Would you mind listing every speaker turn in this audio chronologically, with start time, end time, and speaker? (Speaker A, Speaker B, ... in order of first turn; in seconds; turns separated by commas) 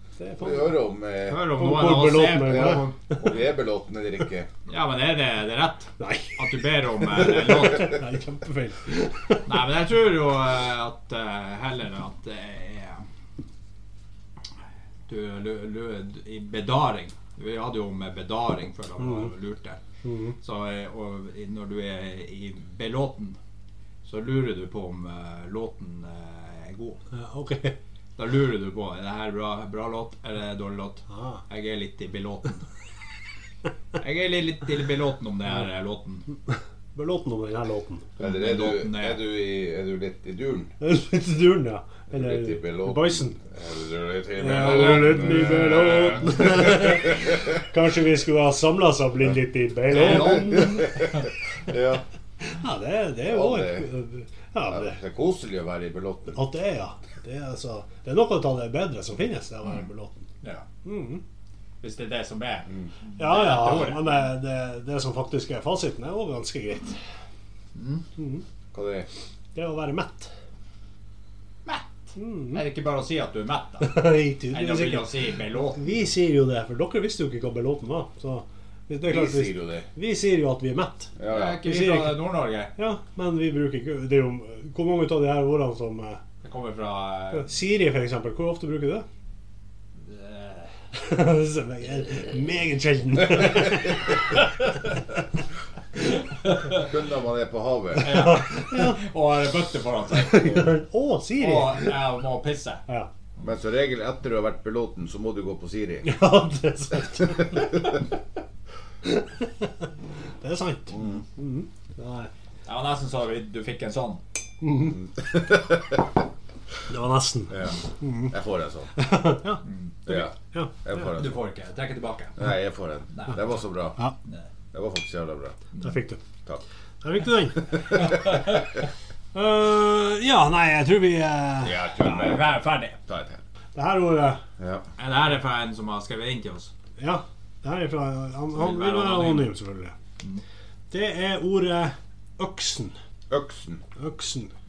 Speaker A: 0.2-0.8, Speaker B: 0.4-1.4, Speaker C: 1.3-3.0, Speaker A: 1.5-2.9, Speaker B: 2.5-4.5, Speaker C: 4.7-8.0, Speaker A: 6.0-6.5, Speaker A: 7.0-9.5, Speaker C: 9.5-13.1, Speaker C: 15.1-19.8, Speaker A: 19.0-19.3, Speaker A: 20.0-20.4, Speaker C: 20.4-23.4, Speaker C: 24.1-27.0, Speaker A: 27.1-27.8, Speaker C: 28.2-32.6, Speaker A: 31.1-31.4, Speaker C: 34.0-36.3, Speaker A: 36.5-38.1, Speaker B: 38.2-40.7, Speaker C: 38.2-39.2, Speaker A: 40.8-43.4, Speaker B: 42.1-47.1, Speaker A: 44.4-50.9, Speaker C: 44.5-46.6, Speaker C: 49.9-51.2, Speaker B: 50.0-52.0, Speaker A: 52.4-55.0, Speaker B: 53.3-53.9, Speaker B: 54.7-56.4, Speaker A: 56.3-60.3, Speaker A: 60.9-61.2, Speaker C: 61.8-64.2, Speaker A: 63.2-67.0, Speaker C: 67.8-68.0, Speaker A: 68.2-68.4, Speaker B: 68.7-69.1, Speaker A: 69.5-70.3, Speaker C: 71.7-71.9, Speaker A: 72.2-72.6, Speaker C: 72.5-74.0, Speaker A: 73.8-75.1, Speaker C: 74.5-75.8, Speaker A: 75.7-81.1, Speaker B: 79.1-79.9, Speaker B: 81.2-81.7, Speaker C: 81.3-82.7, Speaker A: 81.7-82.2, Speaker A: 82.8-86.2, Speaker C: 86.4-87.5, Speaker A: 87.3-89.1, Speaker C: 90.0-90.7, Speaker A: 90.9-94.4, Speaker C: 96.4-96.9, Speaker B: 96.8-98.3, Speaker A: 98.0-99.0, Speaker C: 98.0-100.7, Speaker A: 100.1-101.9, Speaker C: 101.4-102.8, Speaker B: 103.4-106.1, Speaker A: 106.0-108.0, Speaker A: 109.0-109.9, Speaker A: 110.4-112.3, Speaker B: 110.9-111.2, Speaker C: 112.7-114.2, Speaker A: 114.6-115.0, Speaker B: 114.9-116.2, Speaker A: 116.9-118.3, Speaker B: 117.5-119.0, Speaker A: 119.0-119.6, Speaker C: 119.7-120.2, Speaker B: 120.1-121.4, Speaker A: 120.5-120.8, Speaker C: 121.1-122.4, Speaker B: 122.4-124.0, Speaker B: 124.7-125.6, Speaker A: 125.8-126.2, Speaker A: 127.0-128.3, Speaker B: 127.8-128.4, Speaker C: 128.1-128.4, Speaker A: 129.3-131.8, Speaker B: 131.6-133.4, Speaker C: 132.0-133.0, Speaker A: 133.8-134.4, Speaker B: 134.6-134.9, Speaker C: 135.0-136.7, Speaker A: 137.0-139.9, Speaker C: 138.5-139.5, Speaker A: 140.9-143.0, Speaker B: 143.3-143.8, Speaker A: 144.0-144.5